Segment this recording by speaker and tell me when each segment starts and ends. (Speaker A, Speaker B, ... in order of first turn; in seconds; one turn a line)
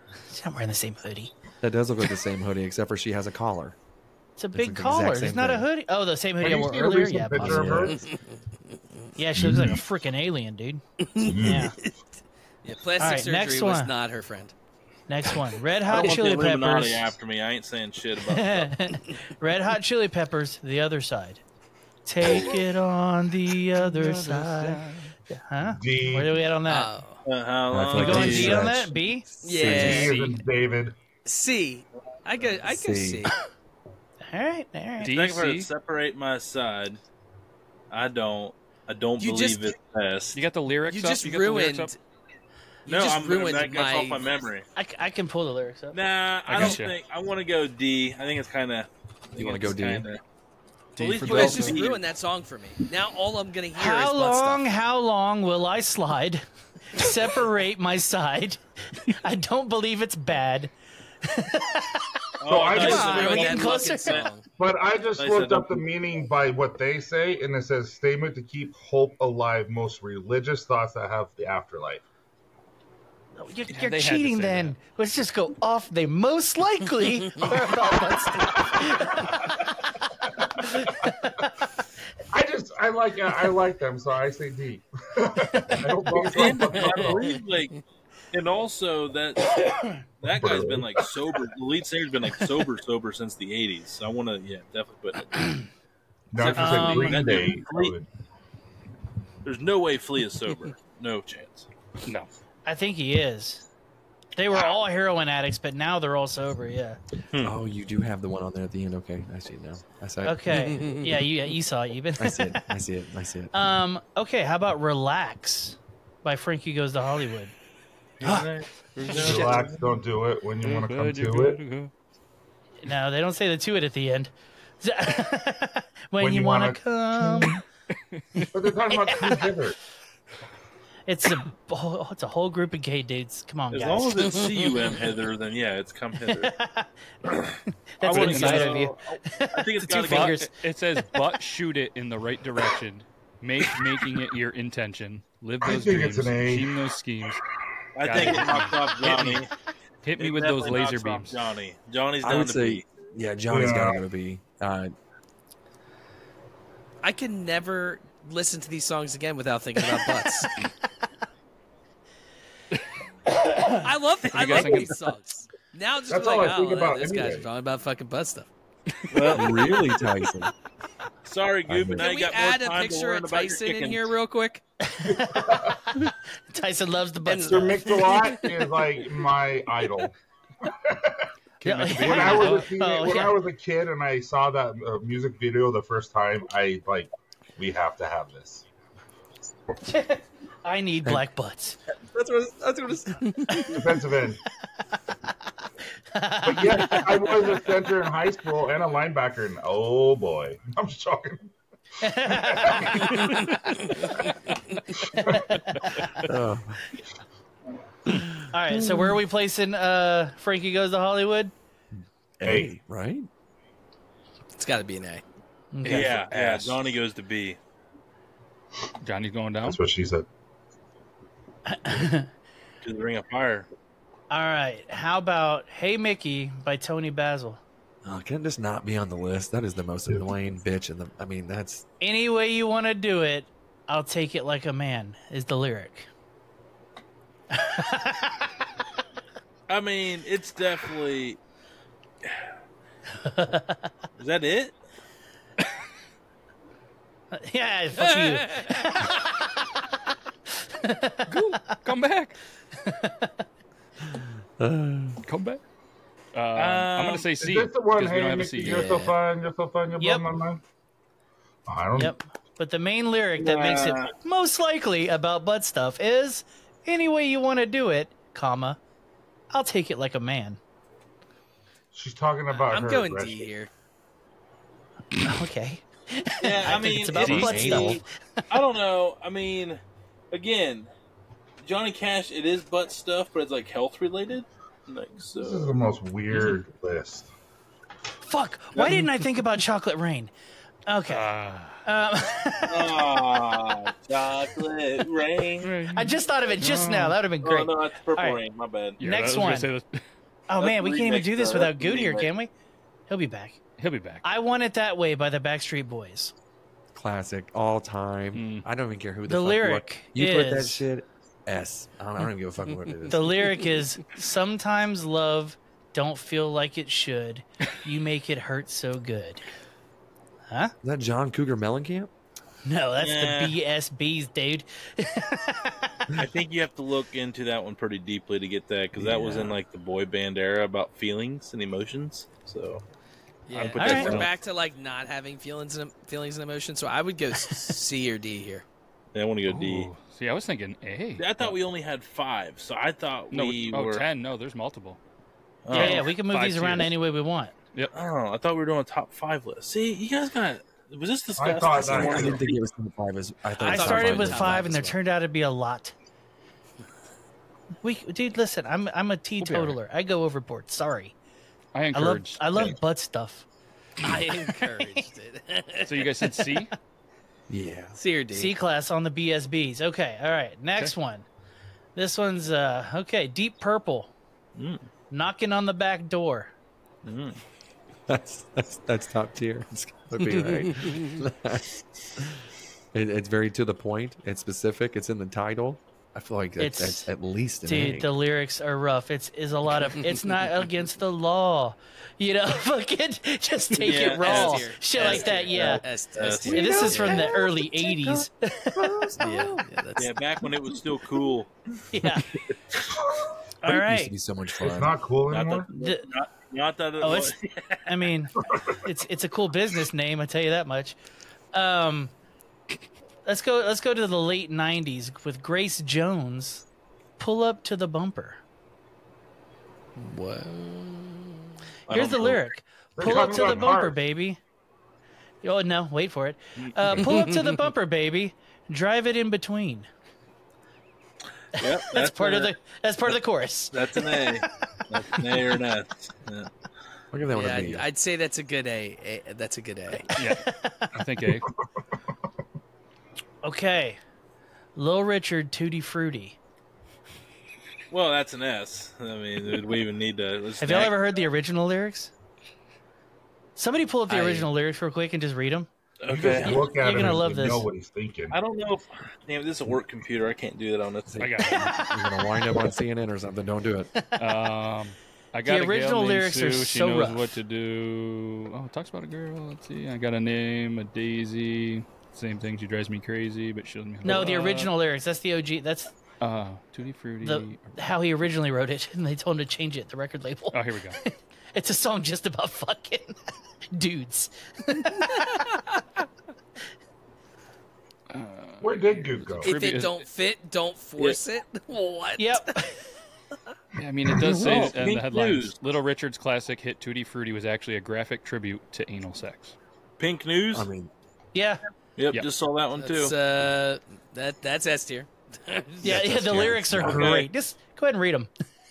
Speaker A: 0.3-1.3
Speaker B: 1.6-3.8
Speaker A: 4.4-7.8
Speaker B: 4.5-5.7
Speaker C: 6.4-8.0
Speaker B: 7.3-8.0
Speaker A: 9.2-11.8
Speaker C: 9.3-9.8
Speaker D: 11.2-11.9
Speaker C: 11.2-11.7
Speaker D: 12.6-14.5
Speaker A: 13.0-13.9
Speaker A: 15.1-17.1
Speaker E: 15.9-18.7
Speaker A: 18.3-21.4
Speaker A: 22.1-26.9
Speaker F: 23.9-25.1
Speaker C: 25.7-26.4
Speaker D: 26.7-27.2
Speaker E: 27.2-28.6
Speaker B: 27.7-30.2
Speaker A: 27.9-29.3
Speaker D: 29.4-30.3
Speaker C: 29.5-30.9
Speaker D: 31.2-33.3
Speaker B: 32.6-33.3
Speaker A: 34.3-35.1
Speaker F: 35.0-35.7
Speaker E: 35.0-37.0
Speaker E: 37.9-40.4
Speaker D: 39.2-39.7
Speaker F: 40.3-41.9
Speaker D: 40.9-42.0
Speaker D: 42.9-44.3
Speaker E: 42.9-44.6
Speaker A: 44.8-46.0
Speaker E: 45.9-50.2
Speaker F: 46.5-47.0
Speaker B: 49.4-50.1
Speaker F: 51.0-51.8
Speaker E: 51.0-52.0
Speaker D: 51.2-54.6
Speaker A: 53.8-60.7
Speaker A: 61.2-62.2
Speaker E: 62.4-64.3
Speaker C: 62.5-63.7
Speaker D: 62.7-64.5
Speaker A: 62.7-64.2
Speaker C: 64.6-72.0
Speaker E: 65.2-65.8
Speaker A: 73.4-79.7
Speaker F: 73.7-74.8
Speaker A: 80.6-81.5
Speaker C: 82.3-87.3
Speaker A: 85.5-85.8
Speaker E: 86.2-87.7
Speaker D: 86.8-87.2
Speaker E: 88.3-89.6
Speaker E: 90.2-95.6
Speaker C: 90.3-91.0
Speaker C: 96.3-98.0
Speaker E: 96.3-97.9
Speaker A: 96.5-97.3
Speaker E: 99.4-101.7
Speaker A: 102.7-103.6
Speaker A: 104.3-107.0
Speaker B: 107.4-111.0
Speaker A: 110.2-112.7
Speaker B: 112.2-113.6
Speaker A: 113.5-117.5
Speaker E: 118.2-119.7
Speaker F: 119.0-119.7
Speaker C: 119.1-121.6
Speaker F: 120.6-121.9
Speaker A: 122.8-127.6
Speaker C: 126.2-127.4
Speaker F: 128.1-128.4
Speaker A: 128.4-129.5
Speaker C: 128.5-129.8
Speaker A: 131.1-134.4
Speaker E: 133.7-136.5
Speaker A: 136.3-136.9
Speaker A: 138.0-140.5
Speaker E: 138.0-140.4
Speaker F: 138.1-138.9
Speaker F: 139.9-147.4
Speaker C: 145.6-146.9
Speaker E: 147.9-149.5
Speaker F: 148.0-149.4
Speaker F: 150.0-151.4
Speaker E: 150.2-152.8
Speaker B: 152.2-154.9
Speaker C: 153.5-154.0
Speaker D: 157.0-160.5
Speaker D: 163.8-168.5
Speaker F: 164.3-165.1
Speaker C: 166.1-167.5
Speaker E: 169.1-169.8
Speaker B: 169.3-170.5
Speaker E: 171.2-174.1
Speaker B: 171.7-172.1
Speaker D: 171.9-174.6
Speaker A: 174.8-178.1
Speaker C: 175.1-175.8
Speaker D: 177.2-178.5
Speaker C: 177.5-180.1
Speaker C: 180.7-181.2
Speaker B: 181.6-182.5
Speaker A: 181.6-183.4
Speaker C: 182.0-188.6
Speaker A: 189.8-191.8
Speaker B: 192.0-193.6
Speaker A: 193.5-193.8
Speaker C: 193.6-194.4
Speaker A: 196.1-197.6
Speaker C: 196.4-201.5
Speaker A: 202.0-203.5
Speaker C: 202.2-203.4
Speaker A: 205.1-206.2
Speaker B: 206.2-206.8
Speaker A: 208.5-211.5
Speaker B: 212.4-213.3
Speaker C: 212.4-212.7
Speaker D: 214.5-215.2
Speaker A: 215.7-216.1
Speaker F: 215.8-216.7
Speaker E: 215.9-217.6
Speaker F: 219.0-219.8
Speaker C: 219.6-220.2
Speaker A: 221.7-222.3
Speaker E: 222.8-223.7
Speaker A: 224.3-227.6
Speaker B: 228.0-231.8
Speaker A: 232.0-236.1
Speaker A: 237.5-238.5
Speaker E: 239.7-241.4
Speaker A: 243.2-243.9
Speaker E: 244.2-244.7
Speaker A: 247.3-249.7
Speaker D: 248.1-248.9
Speaker A: 250.7-251.2
Speaker F: 251.3-252.4
Speaker A: 252.8-253.3
Speaker B: 254.1-255.2
Speaker F: 255.2-255.6
Speaker F: 256.3-259.0
Speaker E: 256.6-257.3
Speaker C: 257.4-260.6
Speaker D: 258.6-259.1
Speaker A: 260.0-260.2
Speaker C: 261.7-262.1
Speaker A: 262.0-268.8
Speaker E: 263.4-264.1
Speaker A: 269.5-270.6
Speaker C: 271.9-273.5
Speaker D: 272.5-273.7
Speaker A: 275.1-278.4
Speaker E: 276.4-280.9
Speaker B: 277.1-278.0
Speaker E: 281.6-285.8
Speaker C: 285.4-287.3
Speaker A: 288.2-290.3
Speaker E: 288.7-289.1
Speaker A: 290.9-291.3
Speaker F: 291.1-291.8
Speaker A: 291.8-292.9
Speaker E: 292.7-295.7
Speaker F: 295.6-297.2
Speaker A: 295.9-298.4
Speaker E: 297.4-299.0
Speaker F: 299.0-300.0
Speaker A: 299.0-299.7
Speaker A: 300.5-302.5
Speaker E: 300.6-302.3
Speaker A: 303.1-303.6
Speaker F: 303.8-304.2
Speaker A: 304.2-306.3
Speaker B: 306.9-313.6
Speaker F: 308.3-308.6
Speaker A: 309.3-310.8
Speaker A: 313.1-319.4
Speaker B: 320.8-322.1
Speaker A: 322.6-326.0
Speaker E: 323.0-323.6
Speaker E: 326.2-332.8
Speaker B: 329.0-329.5
Speaker D: 333.5-338.6
Speaker E: 333.5-334.3
Speaker A: 333.8-334.2
Speaker F: 333.8-334.3
Speaker E: 339.1-339.9
Speaker F: 339.5-341.5
Speaker E: 341.2-344.0
Speaker F: 343.3-345.0
Speaker E: 345.6-346.1
Speaker F: 345.7-346.9
Speaker A: 345.7-347.5
Speaker E: 347.9-352.6
Speaker C: 351.4-352.5
Speaker B: 351.8-354.8
Speaker D: 353.6-355.0
Speaker A: 353.6-355.9
Speaker A: 357.8-361.1
Speaker F: 359.4-359.8
Speaker F: 361.7-362.4
Speaker A: 361.9-363.4
Speaker A: 364.0-365.0
Speaker D: 364.0-366.1
Speaker F: 365.9-366.7
Speaker B: 367.5-368.0
Speaker D: 367.9-368.6
Speaker A: 368.3-371.2
Speaker A: 371.9-374.1
Speaker E: 374.6-374.8
Speaker A: 375.1-376.5
Speaker E: 377.0-377.4
Speaker B: 378.1-382.4
Speaker B: 382.9-388.1
Speaker A: 386.6-387.1
Speaker A: 387.6-395.8
Speaker E: 393.8-396.8
Speaker D: 393.8-397.3
Speaker B: 396.4-399.6
Speaker A: 396.5-399.1
Speaker D: 399.2-400.2
Speaker E: 399.9-401.5
Speaker A: 401.9-402.2
Speaker A: 403.6-404.1
Speaker B: 403.6-404.9
Speaker C: 404.6-405.7
Speaker E: 405.3-407.9
Speaker A: 405.7-406.1
Speaker A: 407.0-407.3
Speaker A: 407.9-411.0
Speaker A: 411.5-412.1
Speaker A: 413.2-416.6
Speaker A: 417.2-418.4
Speaker D: 419.9-421.4
Speaker E: 421.9-422.4
Speaker A: 421.9-424.4
Speaker C: 423.0-424.0
Speaker A: 425.4-429.9
Speaker D: 427.1-427.6
Speaker E: 431.6-432.5
Speaker A: 431.6-434.4
Speaker E: 433.7-436.5
Speaker B: 437.1-437.9
Speaker D: 437.3-440.1
Speaker A: 440.1-440.9
Speaker F: 440.1-441.5
Speaker A: 443.4-444.0
Speaker A: 444.8-446.4
Speaker E: 447.9-451.0
Speaker A: 450.6-452.1
Speaker A: 453.6-455.7
Speaker D: 454.1-454.5
Speaker E: 456.0-456.8
Speaker C: 456.1-458.4
Speaker B: 456.2-456.5
Speaker A: 456.4-457.7
Speaker E: 458.3-461.2
Speaker B: 461.1-463.9
Speaker F: 461.2-461.6
Speaker A: 461.5-462.3
Speaker F: 464.2-474.7
Speaker A: 465.4-467.4
Speaker A: 474.0-475.9
Speaker F: 476.2-477.8
Speaker A: 477.2-483.1
Speaker F: 480.5-481.0
Speaker A: 483.7-485.5
Speaker F: 488.1-490.0
Speaker C: 488.6-489.6
Speaker D: 489.4-492.6
Speaker A: 492.2-492.9
Speaker F: 493.8-499.5
Speaker E: 494.2-495.6
Speaker E: 500.0-500.7
Speaker B: 500.5-500.9
Speaker A: 501.3-501.6
Speaker E: 502.0-503.1
Speaker D: 502.8-506.0
Speaker A: 505.8-508.3
Speaker B: 505.8-507.1
Speaker E: 506.8-507.3